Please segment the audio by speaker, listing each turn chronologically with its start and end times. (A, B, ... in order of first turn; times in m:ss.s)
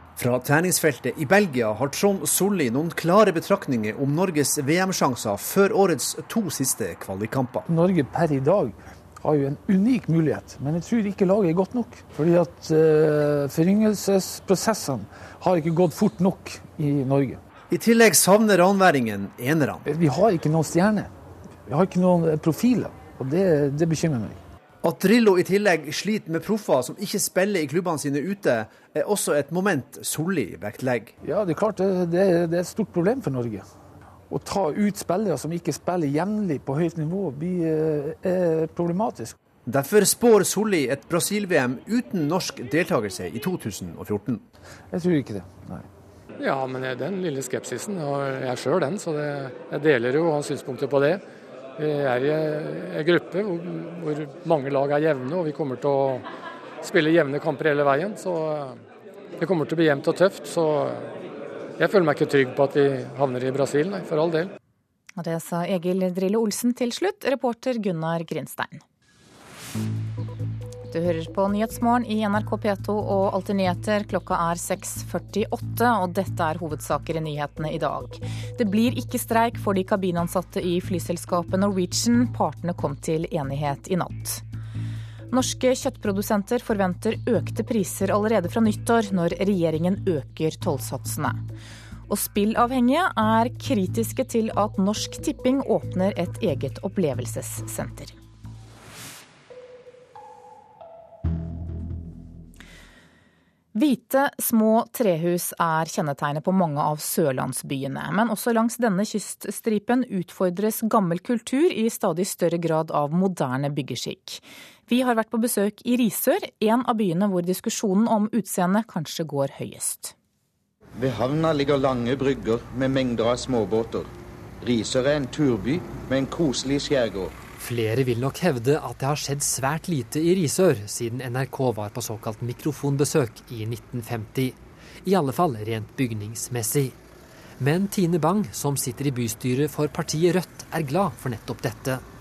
0:00.2-0:07.6 A
0:07.7-0:17.4 B
0:17.7-0:19.8 A
0:19.8-0:21.1 B
0:21.6-0:24.4 B
0:24.8-0:31.1 A
0:31.2-0:33.6 B
0:34.3-0:39.4 B
0:39.6-0:44.4 A
0:44.9-0:45.8 B
0:46.4-0:51.2 C
0:51.8-0:56.2 C
0:56.8-0:58.8 C
0:59.4-1:01.1 C
1:01.8-1:04.5 C
1:05.2-1:08.8 D
1:10.9-1:24.4 D
1:25.3-1:31.4 D
1:32.1-1:38.1 D
1:43.7-2:00.1 D
2:01.0-2:04.1 E
2:04.6-2:07.3 E
2:07.6-2:16.9 F
2:17.6-2:22.0 F